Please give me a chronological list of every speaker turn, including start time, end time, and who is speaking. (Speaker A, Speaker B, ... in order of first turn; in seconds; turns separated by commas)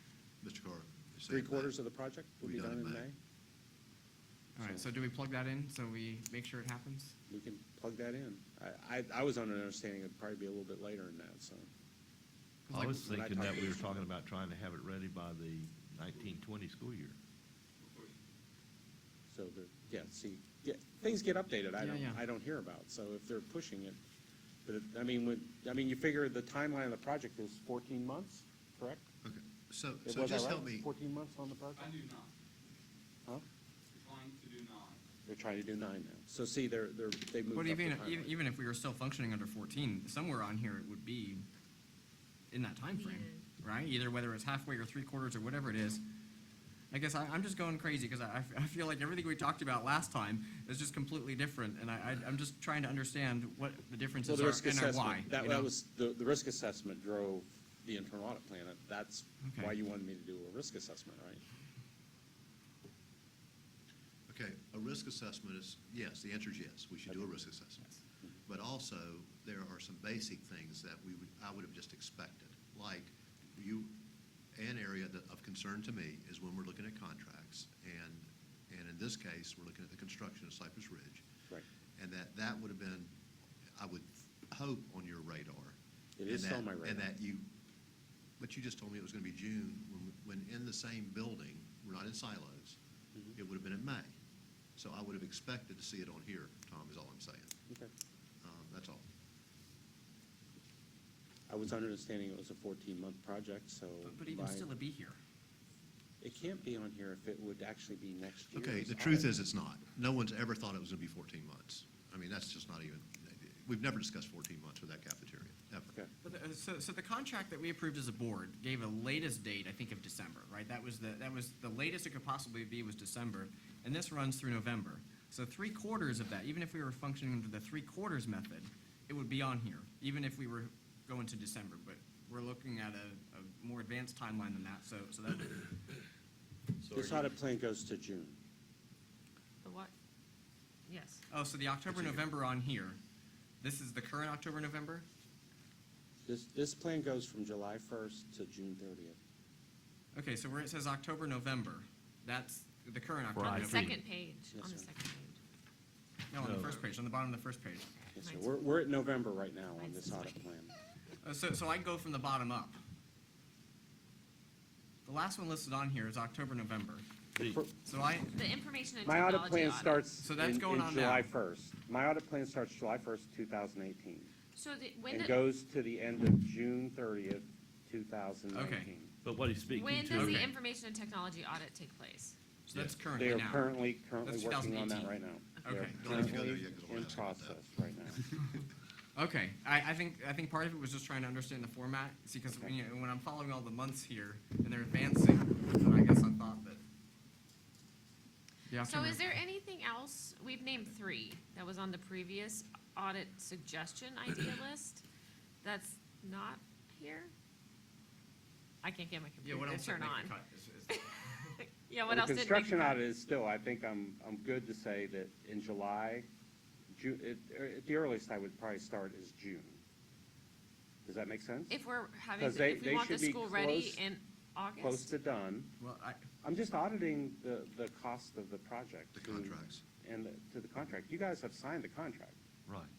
Speaker A: 0.4-1.7, Speaker B: 1.3-3.1, Speaker A: 2.4-3.1, Speaker C: 4.5-7.1, Speaker B: 4.6-4.9, Speaker B: 7.3-11.7, Speaker C: 12.7-13.0, Speaker B: 12.7-14.1, Speaker D: 12.7-17.1, Speaker E: 17.8-18.1, Speaker B: 19.3-24.0, Speaker C: 21.8-22.2, Speaker B: 24.6-29.0, Speaker A: 29.2-30.9, Speaker B: 30.0-31.9, Speaker E: 31.8-32.3, Speaker E: 33.9-35.0, Speaker B: 35.2-38.4, Speaker C: 37.5-41.5, Speaker C: 42.5-46.0, Speaker F: 42.9-43.4, Speaker C: 46.9-55.7, Speaker B: 54.2-61.4, Speaker C: 59.4-59.7, Speaker A: 64.3-74.0, Speaker B: 67.1-67.3, Speaker A: 74.5-81.2, Speaker A: 82.0-83.1, Speaker A: 83.8-87.5, Speaker B: 86.2-87.1, Speaker A: 88.4-92.8, Speaker A: 93.3-94.1, Speaker A: 94.8-97.5, Speaker A: 98.4-99.0, Speaker B: 101.5-104.7, Speaker C: 104.0-105.2, Speaker B: 106.2-109.4, Speaker A: 108.5-115.9, Speaker C: 116.2-135.7, Speaker D: 136.8-137.3, Speaker B: 136.9-138.4, Speaker F: 139.6-139.9, Speaker F: 140.9-141.2, Speaker C: 141.3-143.0, Speaker C: 143.6-145.0, Speaker B: 146.2-149.2, Speaker C: 150.1-153.9, Speaker D: 153.3-154.0, Speaker F: 153.4-155.4, Speaker B: 154.5-154.9, Speaker C: 156.3-157.9, Speaker D: 156.4-156.8, Speaker B: 158.1-160.7, Speaker F: 158.2-158.5, Speaker F: 159.8-160.4, Speaker C: 161.2-162.8, Speaker C: 165.0-167.0, Speaker D: 167.3-167.6, Speaker C: 167.8-168.3, Speaker F: 168.3-170.0, Speaker B: 169.0-174.3, Speaker C: 170.2-171.3, Speaker F: 174.5-175.4, Speaker B: 175.1-179.1, Speaker C: 178.5-178.9, Speaker D: 179.2-180.5, Speaker F: 179.7-182.3, Speaker C: 180.1-180.5, Speaker C: 182.7-183.7, Speaker B: 183.1-188.3, Speaker C: 184.2-185.1, Speaker C: 185.6-186.0, Speaker A: 186.0-187.6, Speaker C: 189.1-196.8, Speaker B: 192.5-192.7, Speaker C: 198.7-199.2, Speaker F: 198.8-205.0, Speaker F: 205.6-207.3, Speaker F: 208.8-210.3, Speaker C: 209.4-211.6, Speaker F: 211.6-213.0, Speaker B: 212.1-216.3, Speaker B: 216.9-219.8, Speaker B: 221.0-221.8, Speaker F: 221.7-225.1, Speaker B: 222.4-224.0, Speaker B: 224.8-225.7, Speaker C: 225.8-226.2, Speaker B: 226.4-232.4, Speaker A: 229.1-229.8, Speaker A: 232.7-232.9